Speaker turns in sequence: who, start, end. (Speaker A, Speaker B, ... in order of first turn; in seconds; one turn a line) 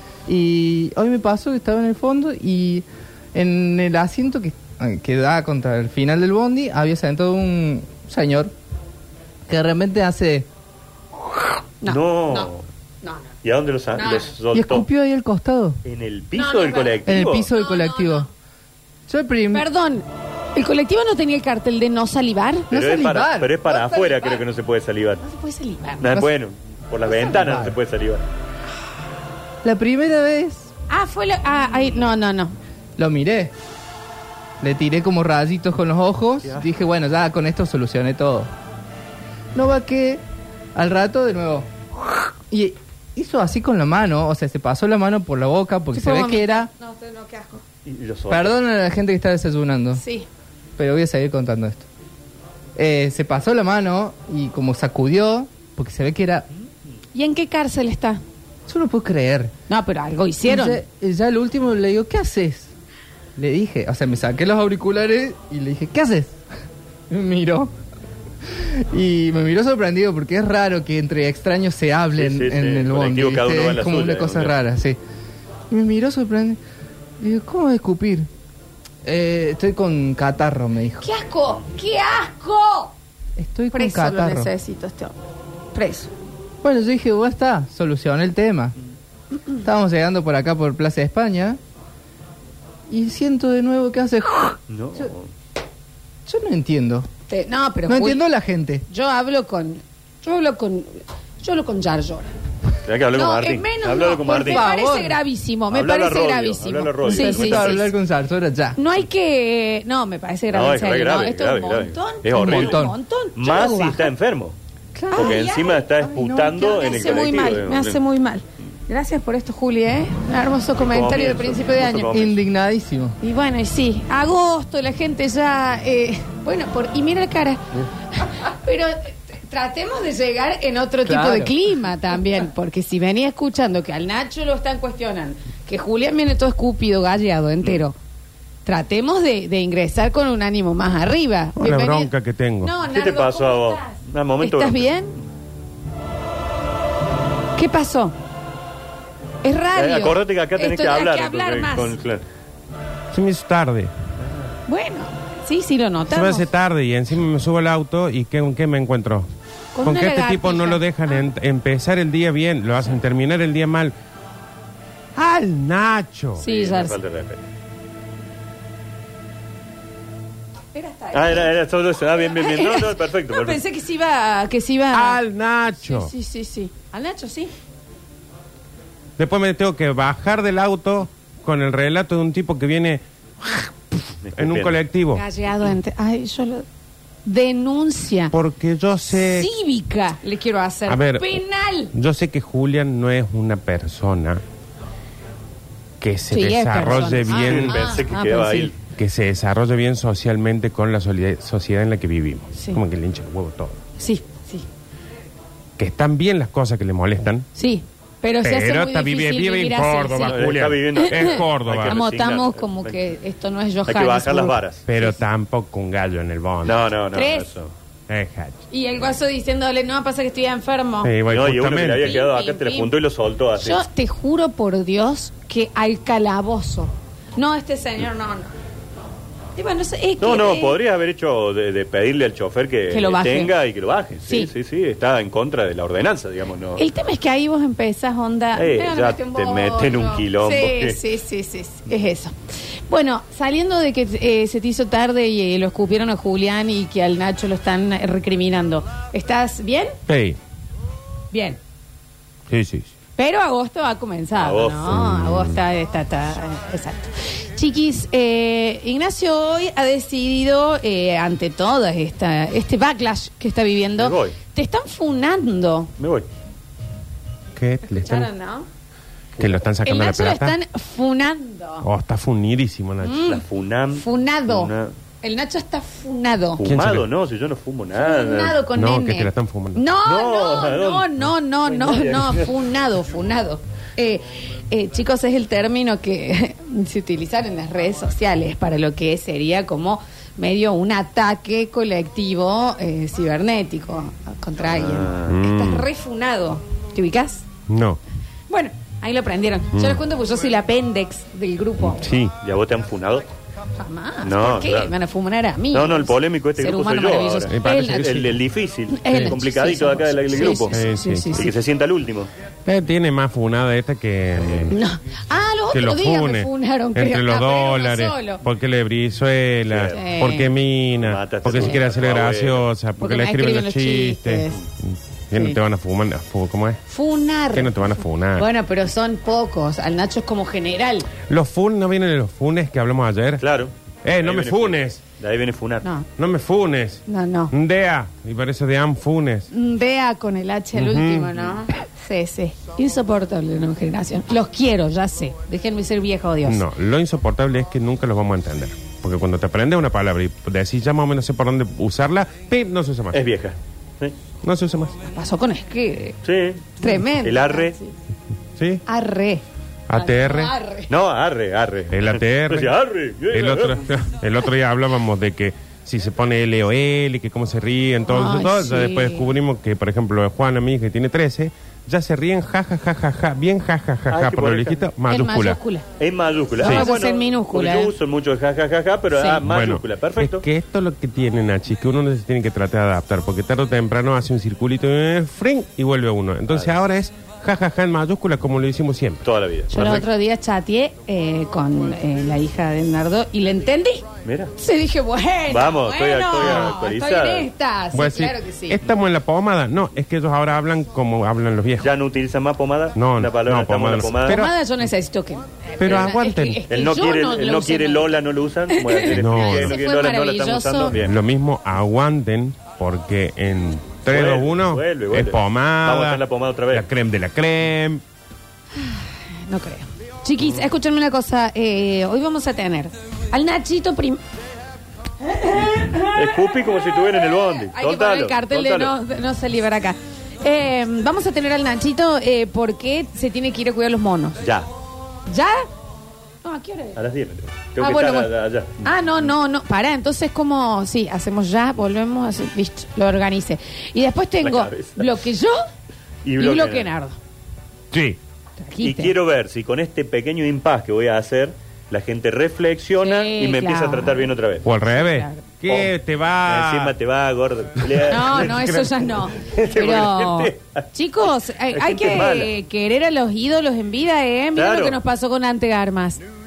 Speaker A: 0.3-8.5
Speaker A: 9.5-10.5
Speaker B: 11.8-12.5
Speaker C: 11.8-12.7
Speaker B: 13.0-13.3
Speaker C: 13.4-14.9
Speaker B: 13.9-14.3
Speaker A: 14.5-15.8
Speaker C: 15.8-17.5
Speaker B: 16.4-18.3
Speaker A: 17.1-18.3
Speaker A: 19.1-19.7
Speaker B: 19.5-22.7
Speaker A: 22.7-23.6
Speaker C: 22.7-25.2
Speaker B: 23.6-24.4
Speaker B: 25.2-26.2
Speaker C: 26.0-28.2
Speaker A: 27.1-27.8
Speaker A: 29.6-30.7
Speaker B: 30.9-32.5
Speaker A: 33.0-33.5
Speaker A: 34.6-38.5
Speaker A: 39.5-40.2
Speaker A: 40.7-46.7
Speaker B: 45.9-47.6
Speaker C: 47.8-48.5
Speaker A: 48.3-50.0
Speaker B: 50.0-50.3
Speaker A: 50.8-51.9
Speaker A: 52.8-56.5
Speaker B: 57.1-58.2
Speaker A: 58.7-59.5
Speaker B: 59.7-60.8
Speaker A: 60.5-62.7
Speaker A: 63.4-66.4
Speaker A: 67.1-67.7
Speaker A: 68.5-75.0
Speaker C: 72.1-74.5
Speaker A: 75.7-76.6
Speaker A: 77.2-78.3
Speaker A: 79.0-81.0
Speaker B: 81.0-82.9
Speaker A: 83.4-84.5
Speaker B: 83.7-85.2
Speaker B: 85.7-86.1
Speaker A: 86.6-88.7
Speaker A: 89.5-91.6
Speaker A: 92.9-95.1
Speaker C: 94.7-95.3
Speaker A: 96.2-97.1
Speaker B: 97.3-98.2
Speaker A: 97.9-98.8
Speaker B: 98.9-102.3
Speaker C: 102.8-104.7
Speaker B: 103.1-107.9
Speaker A: 104.4-105.2
Speaker C: 105.7-107.9
Speaker A: 107.0-108.8
Speaker B: 108.7-114.1
Speaker C: 110.5-114.5
Speaker A: 112.3-113.0
Speaker A: 114.9-115.4
Speaker B: 115.1-115.8
Speaker C: 115.1-118.0
Speaker A: 116.0-117.0
Speaker B: 116.5-122.2
Speaker C: 120.8-122.4
Speaker A: 122.0-123.2
Speaker B: 123.2-137.9
Speaker A: 131.0-131.5
Speaker B: 138.6-145.2
Speaker D: 141.6-142.8
Speaker C: 142.8-145.0
Speaker B: 147.5-148.1
Speaker B: 149.4-152.0
Speaker C: 149.7-152.2
Speaker D: 153.1-153.9
Speaker B: 154.7-156.5
Speaker D: 156.1-159.3
Speaker B: 159.7-161.2
Speaker D: 159.8-163.9
Speaker D: 165.1-166.4
Speaker B: 166.4-167.0
Speaker C: 166.4-167.4
Speaker B: 170.7-171.5
Speaker C: 171.1-173.6
Speaker B: 172.2-175.2
Speaker D: 174.9-176.1
Speaker B: 175.8-177.5
Speaker D: 179.2-185.2
Speaker C: 184.2-184.8
Speaker B: 185.1-186.6
Speaker B: 187.2-188.3
Speaker D: 188.3-189.5
Speaker B: 189.1-191.9
Speaker D: 190.9-191.4
Speaker D: 191.9-194.4
Speaker D: 196.0-197.9
Speaker B: 196.3-198.7
Speaker C: 197.3-198.8
Speaker D: 198.8-203.8
Speaker B: 202.5-202.8
Speaker B: 204.0-204.7
Speaker D: 205.8-207.4
Speaker B: 207.5-215.2
Speaker D: 208.4-212.0
Speaker C: 210.2-213.0
Speaker C: 213.8-214.8
Speaker D: 214.8-216.8
Speaker C: 216.6-217.7
Speaker B: 217.1-217.5
Speaker D: 218.1-218.6
Speaker B: 218.7-221.1
Speaker D: 221.0-222.2
Speaker C: 221.3-223.8
Speaker B: 221.9-222.9
Speaker B: 223.6-228.5
Speaker B: 229.5-230.8
Speaker C: 230.2-236.8
Speaker B: 232.9-233.6
Speaker B: 236.8-242.3
Speaker C: 238.5-241.0
Speaker B: 242.9-249.9
Speaker D: 250.1-250.4
Speaker B: 251.3-251.6
Speaker D: 252.5-252.9
Speaker B: 253.2-265.9
Speaker C: 254.3-255.0
Speaker D: 254.9-255.6
Speaker C: 264.0-264.4
Speaker C: 266.0-266.3
Speaker D: 267.5-268.3
Speaker B: 267.9-268.6
Speaker D: 269.4-270.6
Speaker B: 269.8-271.9
Speaker D: 271.8-273.2
Speaker B: 273.0-273.4
Speaker C: 273.2-274.9
Speaker B: 273.9-276.6
Speaker C: 276.6-278.6
Speaker D: 276.6-277.1
Speaker B: 277.9-297.4
Speaker D: 278.7-279.8
Speaker C: 280.0-282.5
Speaker C: 294.7-295.4
Speaker D: 295.3-295.9
Speaker D: 297.7-298.0
Speaker B: 298.5-302.0
Speaker D: 299.7-300.0
Speaker D: 301.8-302.3
Speaker C: 302.4-303.3
Speaker B: 303.8-308.2
Speaker C: 304.2-304.9
Speaker C: 305.7-310.8
Speaker D: 307.4-308.4
Speaker B: 308.9-311.5
Speaker D: 309.1-309.4
Speaker D: 310.7-311.5
Speaker C: 311.3-312.3
Speaker D: 312.6-314.8
Speaker B: 314.7-318.4
Speaker D: 315.7-326.8
Speaker C: 319.7-320.0
Speaker B: 319.9-320.5
Speaker C: 321.0-322.7
Speaker B: 321.5-321.8
Speaker B: 323.0-324.6
Speaker B: 325.3-325.6
Speaker B: 326.9-331.1
Speaker D: 327.5-328.4
Speaker D: 331.3-333.4
Speaker C: 333.4-335.8
Speaker D: 334.0-335.0
Speaker B: 335.8-336.1
Speaker D: 336.2-339.5
Speaker B: 337.1-337.5
Speaker B: 339.5-346.6
Speaker D: 340.7-341.3
Speaker D: 346.4-353.2
Speaker C: 353.1-354.1
Speaker D: 354.4-354.9
Speaker B: 355.1-356.2
Speaker C: 356.2-357.7
Speaker B: 356.8-357.9
Speaker D: 358.6-358.8
Speaker B: 358.9-359.4
Speaker D: 359.9-360.5
Speaker B: 359.9-360.9
Speaker C: 360.9-363.8
Speaker D: 361.9-362.7
Speaker D: 363.3-375.6
Speaker B: 368.1-369.3
Speaker C: 374.1-374.9
Speaker B: 375.1-375.8
Speaker C: 376.0-380.4
Speaker B: 376.6-377.9
Speaker D: 376.6-376.9
Speaker B: 379.1-379.4
Speaker D: 379.4-389.2
Speaker C: 386.5-386.8
Speaker C: 389.2-390.1
Speaker B: 389.7-394.0
Speaker C: 394.2-394.5
Speaker B: 394.6-398.8
Speaker C: 395.5-397.5
Speaker D: 397.9-401.9
Speaker C: 401.8-404.4
Speaker D: 402.9-404.5
Speaker B: 404.2-408.1
Speaker D: 405.8-406.6
Speaker C: 405.9-406.2
Speaker C: 406.7-411.2
Speaker B: 408.7-410.9
Speaker D: 409.1-409.8
Speaker D: 410.9-418.0
Speaker C: 414.1-416.9
Speaker B: 418.7-424.2
Speaker C: 420.4-420.6
Speaker B: 425.2-434.4
Speaker C: 425.6-428.9
Speaker C: 434.4-434.7
Speaker B: 435.2-435.6
Speaker B: 436.4-437.0
Speaker C: 436.9-439.3
Speaker B: 437.8-445.6
Speaker C: 444.4-445.2
Speaker C: 446.2-446.9
Speaker B: 446.4-447.2
Speaker D: 447.9-448.2
Speaker B: 448.6-449.1
Speaker C: 448.8-454.7
Speaker B: 453.0-455.4
Speaker D: 454.6-456.9
Speaker C: 455.7-455.9
Speaker C: 456.4-462.5
Speaker B: 458.0-466.2
Speaker C: 464.5-465.0